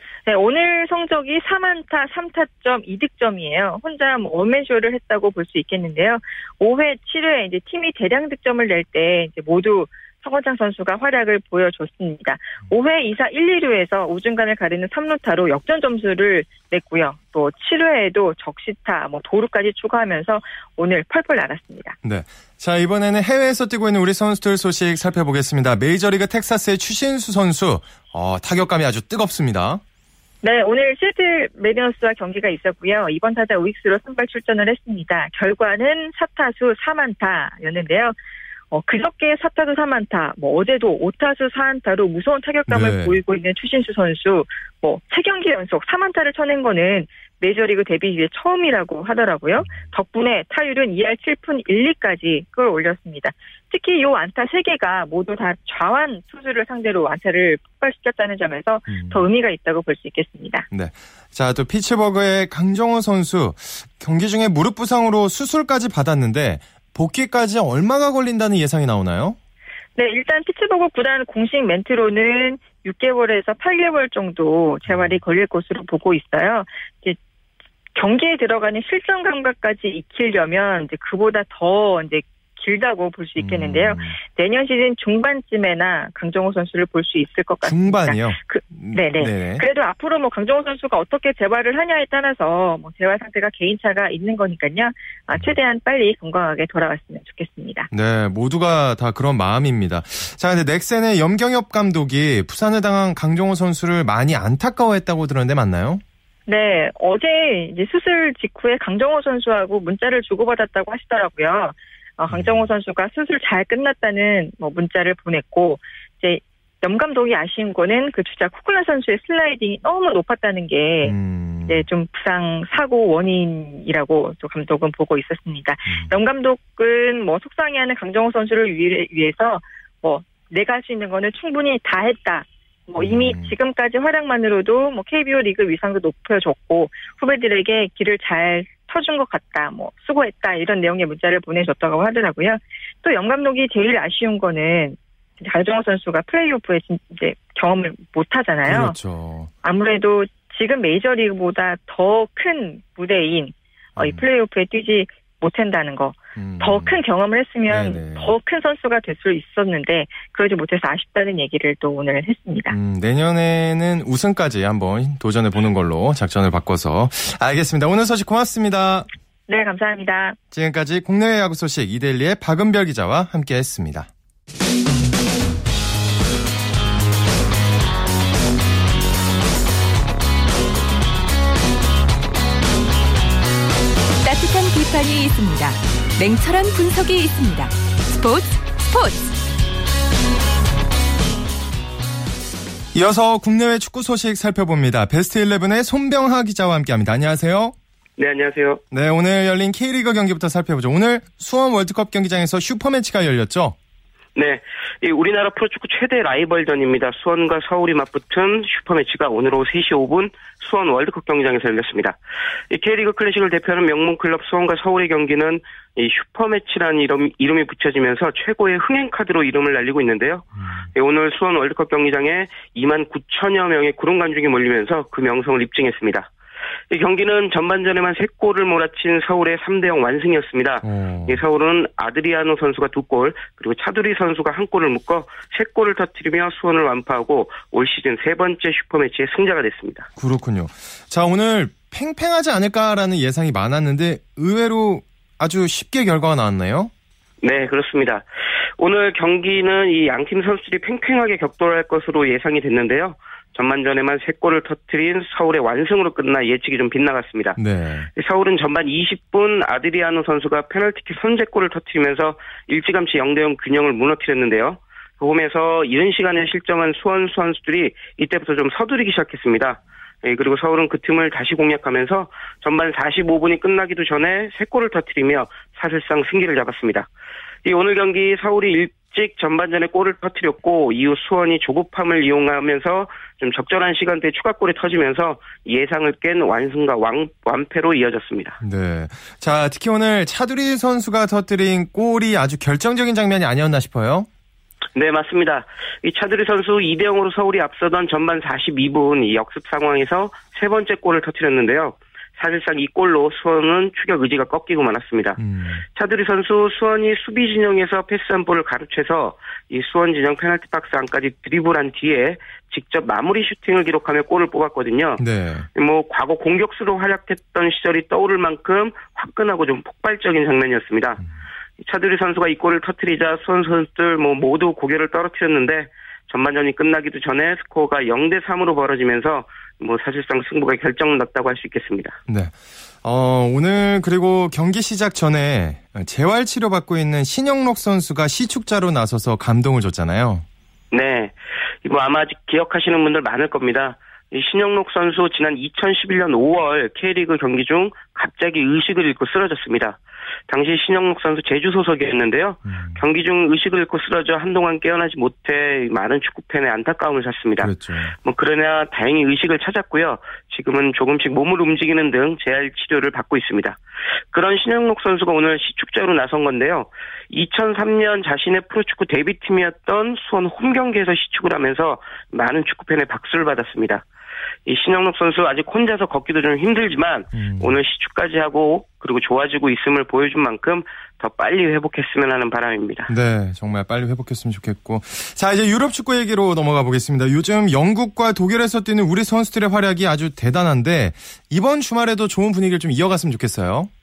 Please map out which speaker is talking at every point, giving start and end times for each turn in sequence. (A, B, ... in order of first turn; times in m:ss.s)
0:00.2-0:22.0 A
0:22.0-0:29.8 B
0:30.4-0:38.1 A
0:38.7-1:00.6 A
0:42.7-0:43.2 B
0:49.6-0:49.8 B
0:58.9-0:59.2 B
1:00.7-1:09.4 B
1:10.0-1:17.2 A
1:14.8-1:15.2 B
1:18.0-1:37.9 A
1:23.4-1:24.2 B
1:27.6-1:29.6 B
1:37.9-1:46.0 B
1:46.5-2:01.1 A
1:52.3-1:52.7 B
2:01.0-2:01.8 B
2:01.7-2:29.0 A
2:05.8-2:06.1 B
2:13.0-2:13.5 B
2:28.6-2:29.5 B
2:29.6-2:42.7 A
2:34.0-2:34.2 B
2:36.4-2:37.0 B
2:37.7-2:38.3 B
2:42.7-2:49.1 B
2:49.5-2:50.4 A
2:50.5-2:54.1 B
3:04.2-3:09.3 C
3:12.9-3:17.7 B
3:18.2-3:18.8 D
3:18.9-3:23.8 B
3:24.3-3:32.2 D
3:32.7-3:46.3 D
3:40.6-3:40.8 B
3:46.9-4:00.1 D
3:50.8-3:51.4 B
4:00.2-4:06.9 B
4:07.4-4:08.2 D
4:08.8-4:17.6 D
4:17.6-4:18.1 B
4:18.2-4:37.1 D
4:37.6-4:48.6 D
4:48.6-4:54.3 B
4:54.9-5:05.4 D
5:05.4-5:05.8 B
5:05.9-5:15.2 D
5:15.2-5:15.7 B
5:15.7-5:21.2 D
5:21.8-5:32.2 D
5:32.3-5:40.4 B
5:40.9-5:57.7 D
5:52.6-5:53.0 B
5:57.6-5:58.1 B
5:58.2-6:03.8 D
6:04.3-6:14.0 D
6:14.6-6:23.1 D
6:17.3-6:17.8 B
6:23.1-6:33.9 B